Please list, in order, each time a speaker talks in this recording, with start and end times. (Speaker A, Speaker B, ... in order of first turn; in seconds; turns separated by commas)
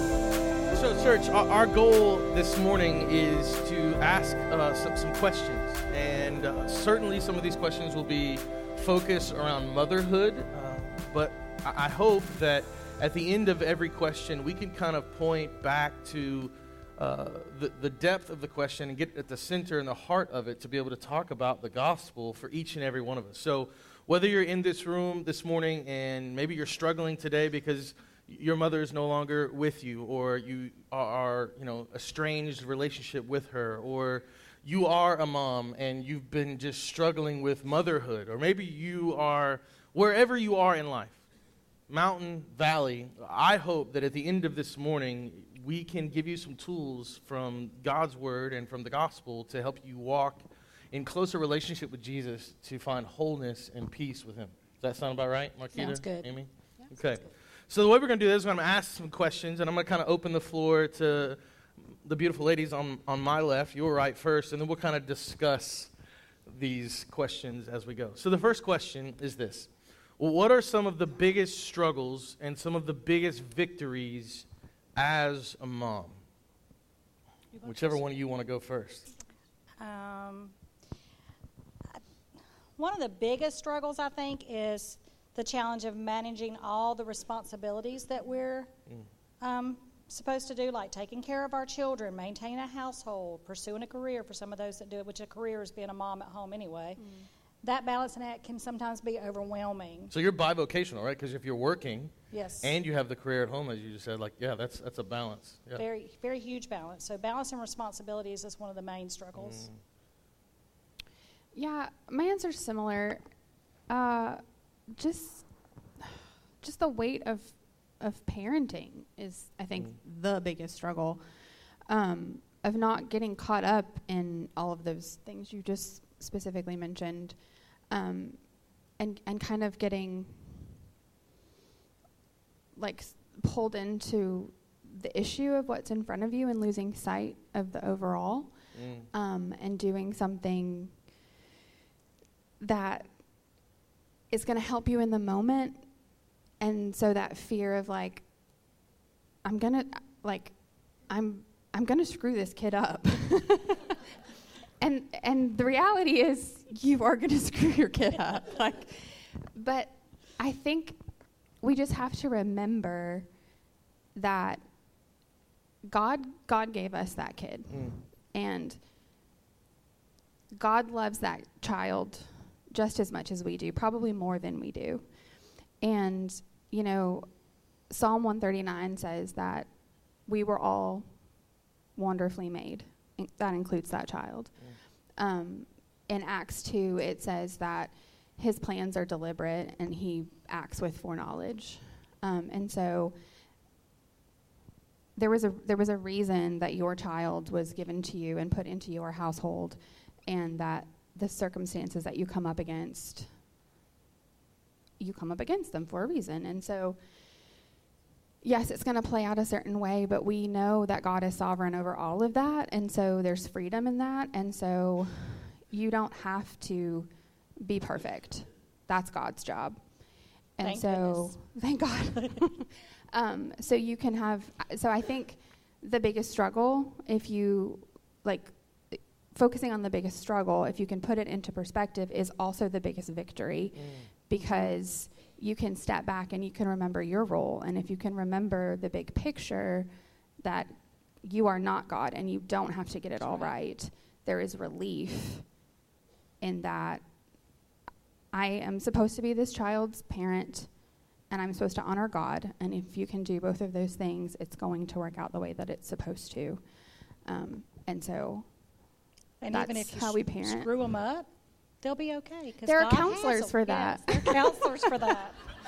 Speaker A: 0.7-41.2, Speaker A: 41.9-65.9, Speaker B: 55.8-56.3, Speaker A: 66.5-76.2, Speaker B: 77.5-78.0, Speaker A: 77.6-79.1, Speaker B: 79.8-80.5, Speaker B: 82.8-88.7, Speaker B: 89.4-97.0, Speaker B: 97.6-100.1, Speaker A: 100.1-105.8, Speaker B: 102.3-102.8, Speaker B: 105.8-109.7, Speaker A: 109.4-109.8, Speaker C: 111.5-113.2, Speaker C: 113.9-115.5, Speaker C: 116.0-121.2, Speaker C: 121.9-127.4, Speaker C: 127.9-130.7, Speaker C: 132.8-138.6, Speaker A: 138.7-139.1, Speaker C: 139.1-141.0, Speaker C: 142.6-143.2, Speaker C: 144.3-145.9, Speaker C: 146.6-148.3, Speaker C: 149.4-153.9, Speaker C: 154.8-161.0, Speaker C: 161.6-163.3, Speaker C: 164.2-164.6, Speaker C: 165.9-168.8, Speaker A: 167.7-168.0, Speaker C: 170.5-175.2, Speaker C: 175.7-177.3, Speaker C: 177.9-179.7, Speaker C: 180.2-181.2, Speaker C: 181.9-184.6, Speaker C: 185.2-193.2, Speaker C: 195.2-203.3, Speaker C: 205.0-207.0, Speaker C: 208.4-219.8, Speaker C: 220.6-239.9, Speaker B: 220.6-221.6, Speaker A: 233.8-234.1, Speaker B: 234.3-234.7, Speaker C: 240.4-245.5, Speaker B: 243.2-243.5, Speaker C: 246.4-247.0, Speaker C: 248.3-250.7, Speaker C: 251.3-256.6, Speaker C: 257.2-258.5, Speaker B: 259.4-261.3, Speaker C: 259.5-260.7, Speaker B: 261.8-265.4, Speaker C: 262.7-264.9